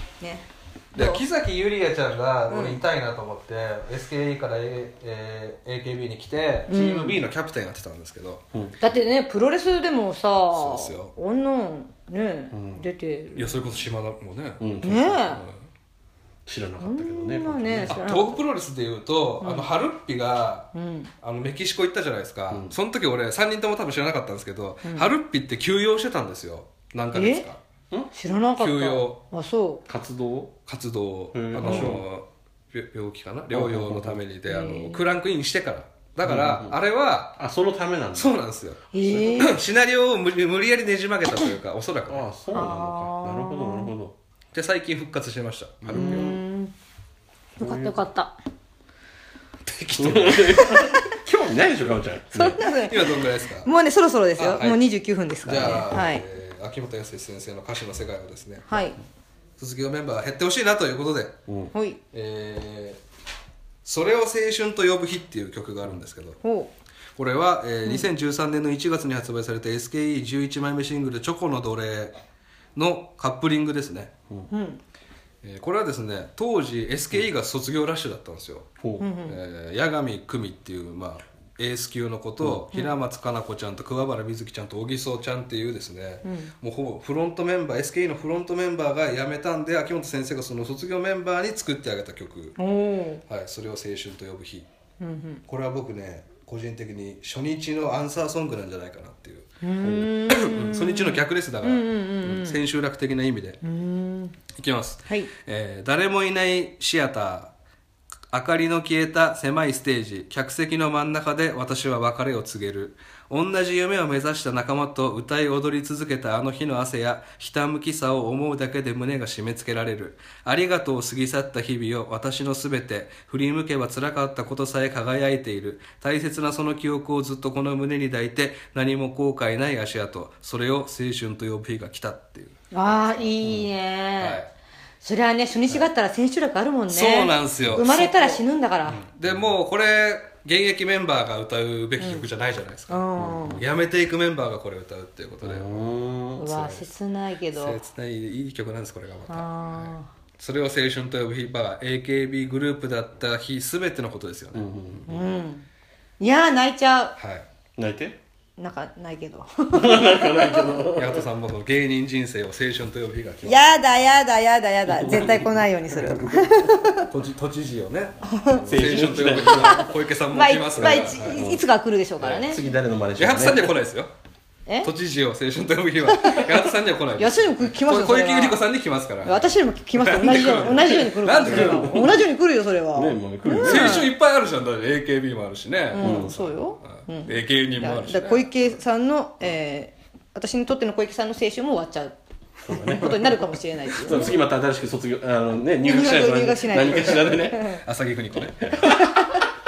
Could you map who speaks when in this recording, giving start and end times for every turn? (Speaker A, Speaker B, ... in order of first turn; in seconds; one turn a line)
Speaker A: 0.2-1.2
Speaker B: 0.9-8.4
Speaker A: 2.5-2.8
Speaker A: 6.7-7.2
Speaker A: 8.8-13.7
Speaker B: 10.5-11.1
Speaker C: 12.5-12.9
Speaker B: 13.4-14.7
Speaker C: 14.6-15.3
Speaker A: 14.8-15.4
Speaker B: 15.3-15.5
Speaker C: 16.5-18.0
Speaker A: 16.8-18.4
Speaker B: 17.8-20.7
Speaker A: 19.4-19.7
Speaker A: 20.7-21.1
Speaker B: 21.2-27.6
Speaker C: 22.5-22.8
Speaker A: 24.8-25.1
Speaker A: 27.1-27.5
Speaker A: 28.1-29.8
Speaker B: 28.6-29.2
Speaker C: 29.9-30.6
Speaker B: 30.7-37.4
Speaker C: 31.3-32.0
Speaker A: 31.6-31.9
Speaker C: 33.5-34.2
Speaker A: 34.5-35.1
Speaker C: 36.2-36.8
Speaker C: 37.4-38.3
Speaker B: 38.1-42.3
Speaker A: 38.9-39.6
Speaker C: 42.1-44.1
Speaker A: 42.5-43.9
Speaker B: 44.5-46.4
Speaker C: 45.9-46.4
Speaker A: 45.9-46.7
Speaker A: 47.6-48.3
Speaker C: 47.6-48.0
Speaker B: 49.6-50.9
Speaker C: 50.0-52.6
Speaker A: 50.7-51.2
Speaker A: 52.3-56.2
Speaker B: 52.9-53.7
Speaker B: 54.4-54.8
Speaker B: 55.5-58.9
Speaker C: 55.5-56.0
Speaker A: 58.7-59.0
Speaker B: 59.6-61.4
Speaker A: 61.7-62.0
Speaker B: 62.1-63.0
Speaker B: 63.9-66.4
Speaker A: 66.4-66.7
Speaker B: 67.2-72.2
Speaker B: 72.8-74.1
Speaker A: 74.5-74.8
Speaker B: 75.4-78.7
Speaker C: 78.8-79.1
Speaker A: 79.0-79.4
Speaker B: 79.3-92.6
Speaker A: 86.2-86.5
Speaker A: 92.6-93.2
Speaker B: 93.3-94.7
Speaker A: 95.0-95.4
Speaker B: 95.5-103.6
Speaker A: 99.6-102.6
Speaker A: 103.6-104.3
Speaker B: 104.5-107.5
Speaker B: 108.3-133.3
Speaker A: 132.7-134.4
Speaker C: 133.4-133.7
Speaker B: 134.2-134.5
Speaker A: 135.0-139.0
Speaker B: 136.9-143.0
Speaker A: 142.0-142.2
Speaker A: 142.9-143.6
Speaker C: 143.2-143.6
Speaker B: 143.5-146.9
Speaker C: 145.4-146.5
Speaker A: 146.4-147.8
Speaker B: 147.5-154.7
Speaker A: 149.3-150.1
Speaker C: 154.5-155.1
Speaker A: 155.1-155.7
Speaker A: 156.2-157.1
Speaker B: 157.2-157.4
Speaker C: 157.8-158.2
Speaker A: 158.6-160.8
Speaker C: 159.7-161.3
Speaker B: 160.9-163.6
Speaker A: 163.4-167.1
Speaker C: 165.0-165.4
Speaker C: 166.1-166.6
Speaker B: 167.0-171.4
Speaker A: 168.2-168.7
Speaker C: 168.7-169.9
Speaker A: 169.5-172.6
Speaker C: 170.7-171.6
Speaker C: 172.3-173.8
Speaker B: 173.2-174.1
Speaker B: 174.8-182.2
Speaker A: 176.1-178.6
Speaker A: 179.2-184.1
Speaker C: 181.4-182.2
Speaker C: 182.9-184.1
Speaker B: 183.6-188.5
Speaker A: 185.9-192.2
Speaker C: 186.0-186.3
Speaker C: 192.6-193.4
Speaker A: 192.7-194.3
Speaker C: 194.0-197.7
Speaker A: 195.8-197.8
Speaker B: 197.1-198.9
Speaker C: 198.6-199.2
Speaker A: 198.8-199.4